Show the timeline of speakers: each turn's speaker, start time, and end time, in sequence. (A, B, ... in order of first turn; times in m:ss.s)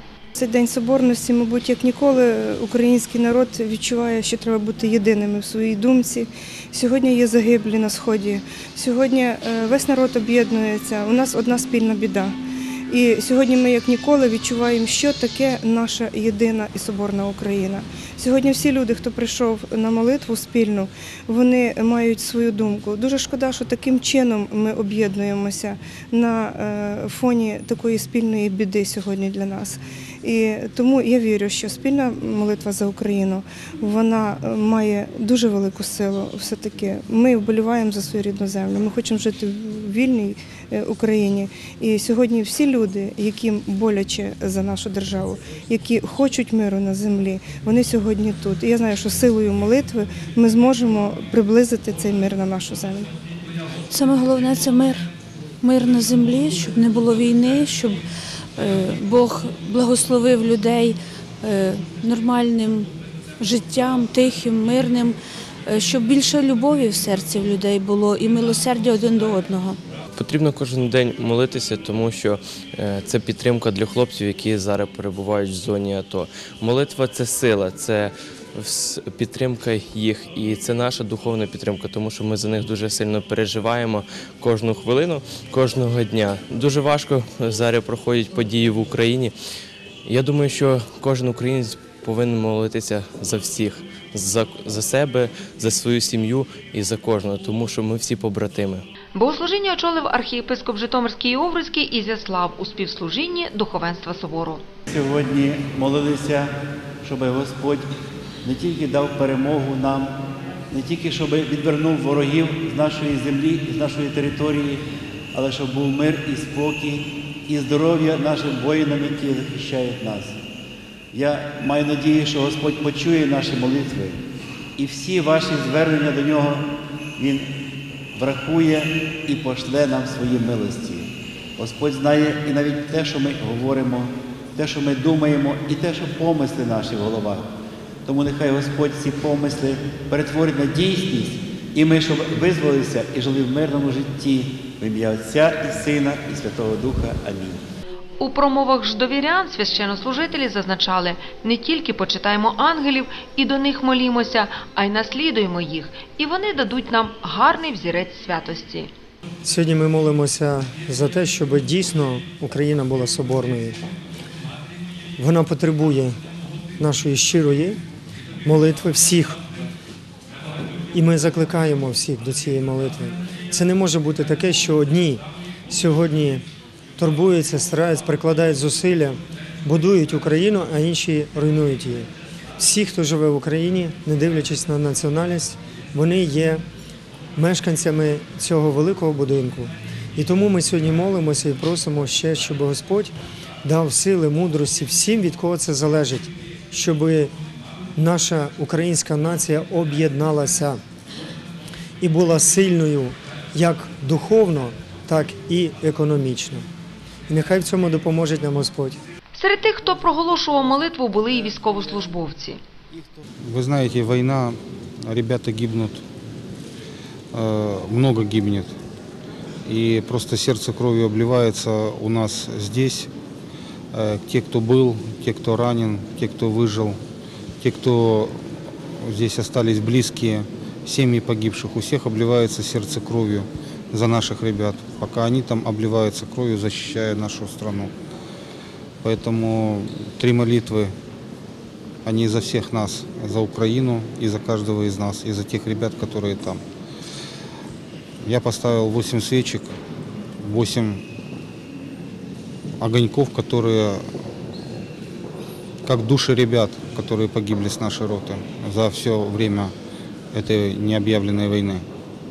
0:00.4-0:12.3 A
0:12.9-0:53.1 A
0:53.9-0:55.1 B
0:55.6-0:58.0 B
0:58.6-1:02.9 B
1:03.4-1:09.8 B
1:10.2-1:29.3 C
1:30.0-1:38.8 C
1:39.1-1:44.6 D
1:44.9-1:46.5 E
1:47.0-1:47.9 E
1:48.4-1:50.2 E
1:50.7-2:00.4 E
2:01.1-2:04.2 E
2:04.8-2:06.6 E
2:07.2-2:07.5 E
2:08.1-2:17.5 E
2:18.0-2:27.6 E
2:28.2-2:38.9 D
2:39.4-2:43.9 F
2:45.2-2:46.2 F
2:46.8-2:47.8 F
2:48.4-2:49.4 F
2:50.9-2:56.4 F
2:57.0-3:06.6 F
3:07.4-3:17.3 F
3:18.0-3:20.8 F
3:22.0-3:26.6 F
3:27.3-3:29.0 F
3:29.3-3:32.6 D
3:29.6-3:32.2 E
3:32.9-3:33.2 E
3:33.4-3:36.0 G
3:37.3-3:38.7 G
3:39.6-3:43.1 G
3:43.9-3:47.0 G
3:47.6-3:48.4 G
3:49.0-3:57.9 G
3:59.0-4:00.9 G
4:02.0-4:06.6 G
4:08.2-4:09.7 G
4:10.4-4:11.0 G
4:12.8-4:14.0 G
4:15.8-4:19.7 G
4:20.3-4:21.8 G